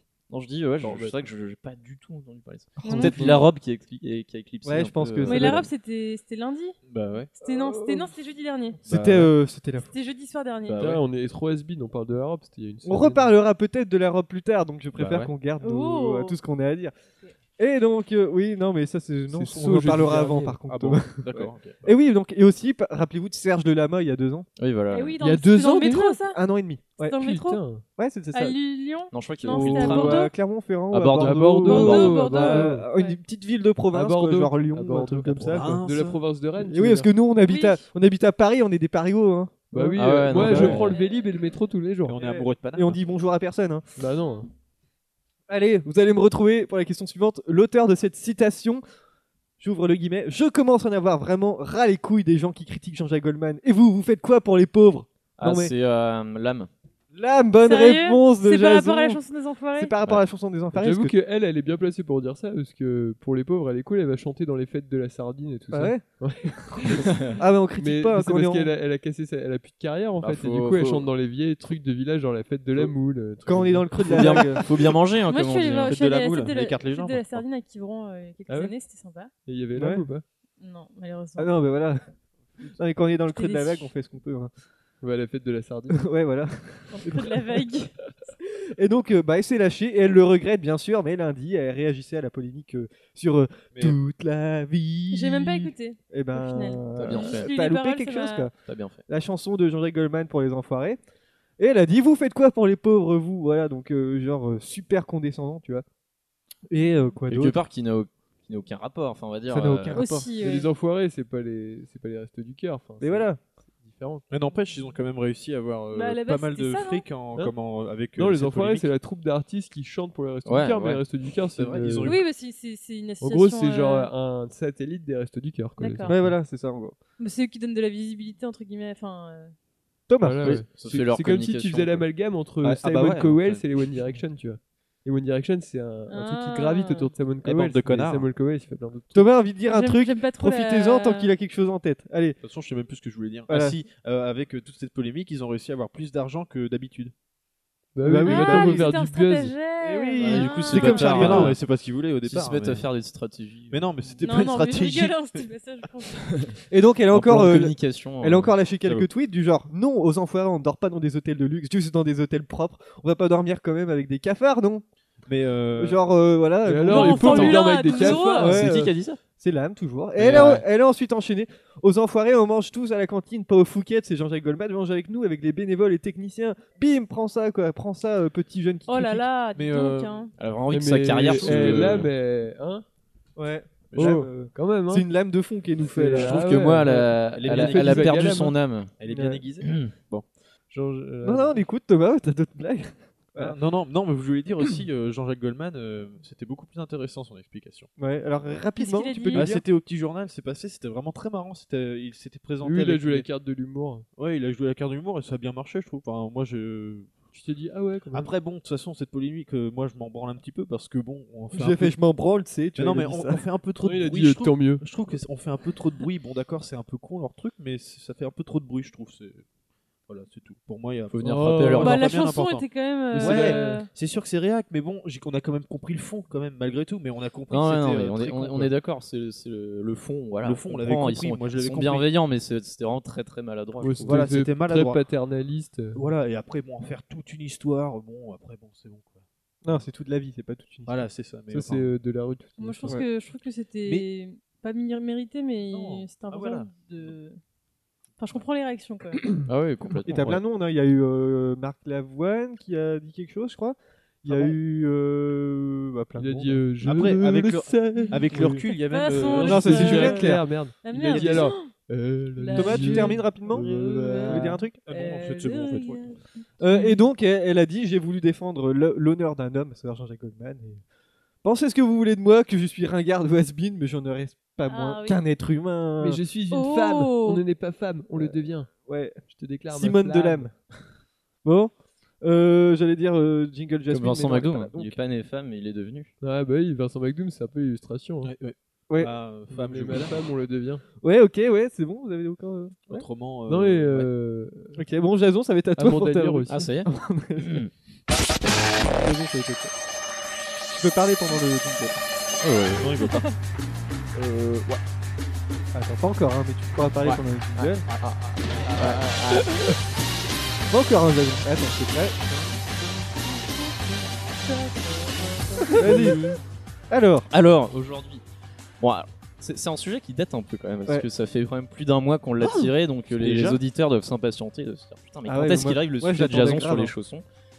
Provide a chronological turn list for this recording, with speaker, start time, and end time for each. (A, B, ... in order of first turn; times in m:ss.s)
0:00.3-0:05.6 A
0:00.8-0:01.2 B
0:02.8-0:03.3 C
0:02.8-0:03.2 D
0:04.6-0:05.7 C
0:05.2-0:06.8 D
0:06.9-0:07.3 B
0:07.4-0:08.8 D
0:07.5-0:08.1 E
0:08.9-0:09.9 C
0:08.9-0:09.3 B
0:09.9-0:10.9 D
0:10.6-0:11.0 B
0:10.8-0:13.3 E
0:12.8-0:16.9 C
0:15.0-0:15.3 B
0:15.6-0:16.4 D
0:17.6-0:24.5 C
0:19.3-0:20.6 E
0:20.7-0:21.9 B
0:24.6-0:25.2 A
0:24.9-0:26.4 D
0:25.2-0:26.2 E
0:25.2-0:27.2 C
0:27.0-0:27.6 D
0:27.1-0:27.8 E
0:28.0-0:28.6 C
0:28.3-0:30.3 D
0:29.1-0:30.2 A
0:29.5-0:35.8 C
0:29.6-0:30.2 B
0:30.9-0:31.9 A
0:31.2-0:32.9 E
0:31.7-0:33.2 D
0:33.9-0:37.1 E
0:35.4-0:36.2 B
0:36.6-0:40.8 C
0:37.5-0:37.8 D
0:39.7-0:42.2 E
0:40.0-0:40.9 A
0:42.1-0:43.0 B
0:42.1-0:43.8 C
0:44.0-0:44.5 E
0:45.5-0:48.8 C
0:49.6-0:55.7 C
0:55.4-0:56.7 A
0:57.1-0:59.2 C
0:57.6-0:59.9 D
0:59.8-1:01.1 C
1:00.8-1:07.1 E
1:05.7-1:06.0 C
1:06.7-1:08.7 C
1:07.0-1:07.4 A
1:07.8-1:14.4 E
1:10.2-1:11.1 A
1:13.5-1:14.7 C
1:14.1-1:16.0 A
1:15.3-1:19.3 D
1:15.7-1:17.5 B
1:18.5-1:18.7 E
1:19.5-1:20.2 E
1:19.8-1:20.0 C
1:20.6-1:21.5 D
1:21.4-1:22.0 C
1:22.8-1:24.5 C
1:23.3-1:23.9 D
1:25.0-1:26.0 E
1:25.9-1:27.7 C
1:26.9-1:27.9 D
1:28.5-1:38.5 C
1:33.7-1:34.0 B
1:35.1-1:38.5 D
1:37.0-1:37.5 A
1:38.6-1:39.0 A
1:39.1-1:41.0 C
1:41.6-1:45.8 C
1:46.7-1:47.6 C
1:47.3-1:50.0 A
1:49.5-1:50.2 C
1:49.9-1:50.7 D
1:50.4-1:54.2 E
1:53.0-1:53.4 C
1:54.3-1:58.9 B
1:55.9-1:57.1 D
1:58.2-2:02.2 E
2:00.5-2:01.0 A
2:01.5-2:02.2 B
2:02.0-2:04.1 D
2:03.2-2:06.3 E
2:05.8-2:06.2 D
2:06.1-2:07.0 C
2:07.2-2:09.5 D
2:10.1-2:10.6 C
2:10.2-2:19.3 E
2:10.4-2:12.1 A
2:12.6-2:13.6 B
2:16.1-2:17.1 D
2:17.4-2:18.3 B
2:19.1-2:22.4 C
2:19.7-2:21.3 D
2:22.4-2:27.1 B
2:23.5-2:23.8 C
2:28.0-2:29.5 E
2:28.0-2:28.9 C
2:28.2-2:31.4 D
2:29.8-2:31.6 C
2:30.2-2:32.8 B
2:30.2-2:31.6 A
2:32.3-2:33.9 A
2:33.7-2:35.5 B
2:34.2-2:36.4 D
2:36.7-2:44.8 C
2:37.1-2:39.1 A
2:45.3-2:46.0 B
2:45.8-2:47.6 C
2:46.7-2:48.6 E
2:46.9-2:48.6 D
2:47.8-2:49.2 A
2:48.4-2:59.3 C
2:50.3-2:50.6 B
2:58.9-3:00.3 D
2:59.6-3:00.3 B
3:00.4-3:02.1 A
3:00.7-3:02.8 E
3:01.2-3:02.1 B
3:03.4-3:06.4 C
3:03.9-3:04.2 B
3:04.0-3:05.1 E
3:05.9-3:08.6 E
3:06.2-3:08.9 A
3:07.4-3:08.4 B
3:09.0-3:11.2 B
3:09.1-3:09.4 C
3:09.6-3:09.9 A
3:10.7-3:11.4 E
3:11.2-3:13.6 C
3:13.4-3:17.9 B
3:18.0-3:19.6 C
3:18.8-3:19.6 D
3:19.3-3:23.3 B
3:22.6-3:24.0 E
3:24.2-3:27.1 B
3:27.3-3:28.3 E
3:28.1-3:32.0 B
3:31.5-3:33.4 C
3:32.8-3:39.4 B
3:33.8-3:34.8 E
3:40.1-3:48.7 B
3:41.1-3:42.1 A
3:41.2-3:42.0 E
3:41.8-3:43.9 D
3:43.1-3:43.8 E
3:47.5-3:54.2 A
3:50.4-3:52.1 B
3:53.8-3:56.0 E
3:54.0-3:55.0 B
3:56.0-3:59.2 B
3:59.6-4:01.1 C
4:00.9-4:01.9 B
4:01.5-4:03.0 E
4:02.6-4:07.4 D
4:05.6-4:07.1 B
4:08.2-4:09.4 D
4:09.4-4:10.4 A
4:10.1-4:16.6 C
4:16.2-4:18.3 E
4:16.8-4:20.2 B
4:18.0-4:21.7 D
4:18.3-4:18.6 C
4:19.3-4:20.4 C
4:19.4-4:24.6 E
4:21.1-4:21.5 C
4:22.4-4:27.0 D
4:22.5-4:23.7 C
4:24.2-4:24.8 C
4:24.8-4:26.2 B
4:26.6-4:30.8 C
4:31.4-4:36.2 C
4:34.7-4:35.2 D
4:36.0-4:38.7 E
4:36.5-4:37.4 D
4:38.2-4:39.2 C
4:39.3-4:40.5 E
4:39.7-4:40.5 C
4:41.4-4:45.0 C
4:43.9-4:46.1 A
4:46.2-4:48.3 E
4:48.2-4:50.2 B
4:49.5-4:50.8 E
4:51.0-4:53.0 C
4:52.9-4:54.1 B
4:53.5-4:54.8 E
4:54.8-4:57.7 C
4:55.8-4:56.7 E
4:56.5-4:57.7 A
4:59.0-4:59.7 C
5:00.7-5:02.0 C
5:02.4-5:03.1 A
5:02.8-5:03.2 B
5:03.0-5:03.3 D
5:04.2-5:04.8 B
5:05.7-5:07.8 C
5:07.9-5:09.4 B
5:08.7-5:09.4 A
5:10.7-5:12.6 C
5:13.2-5:16.2 D
5:15.7-5:16.3 C
5:16.9-5:17.3 C
5:17.3-5:18.2 A
5:18.8-5:27.2 A
5:23.1-5:23.6 B
5:25.3-5:26.9 C